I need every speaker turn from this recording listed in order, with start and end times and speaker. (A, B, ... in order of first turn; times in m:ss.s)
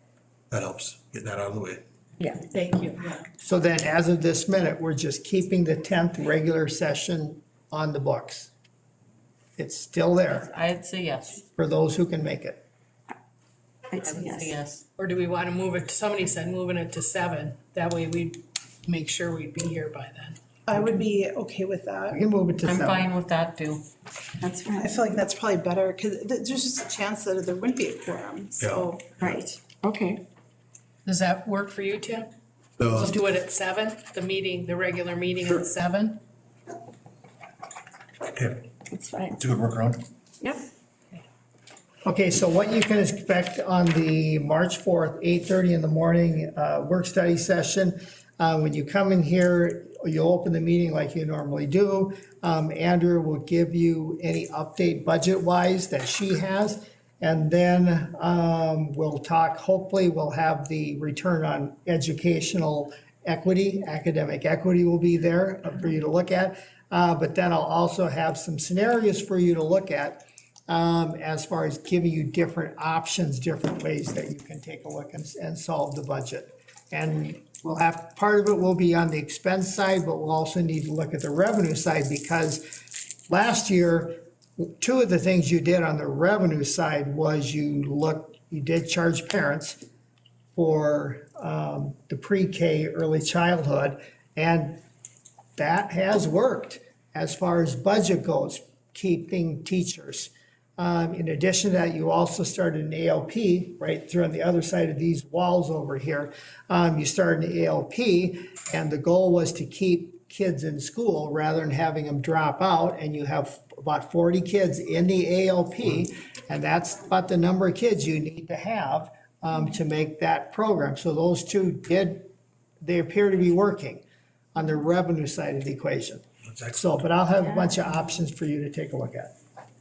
0:00.5-0:01.8 A
0:02.2-0:02.5 B
0:02.5-0:03.2 C
0:03.4-0:08.5 D
0:09.6-0:10.5 D
0:10.3-0:11.4 E
0:11.6-0:12.6 D
0:13.9-0:14.6 B
0:14.0-0:14.8 E
0:15.0-0:20.4 C
0:20.7-0:22.2 F
0:22.1-0:23.1 D
0:22.6-0:23.8 E
0:24.4-0:25.0 B
0:24.8-0:29.2 F
0:28.6-0:29.3 A
0:29.2-0:30.2 B
0:31.0-0:32.3 C
0:32.8-0:33.1 A
0:32.8-0:36.2 C
0:38.3-0:38.7 A
0:38.9-0:39.4 B
0:39.4-0:40.0 A
0:42.0-1:22.6 D
1:23.3-1:29.8 D
1:30.6-1:34.8 D
1:35.6-2:02.3 D
2:02.8-2:04.0 D
2:04.5-2:09.3 D
2:06.5-2:07.0 A
2:07.4-2:07.9 B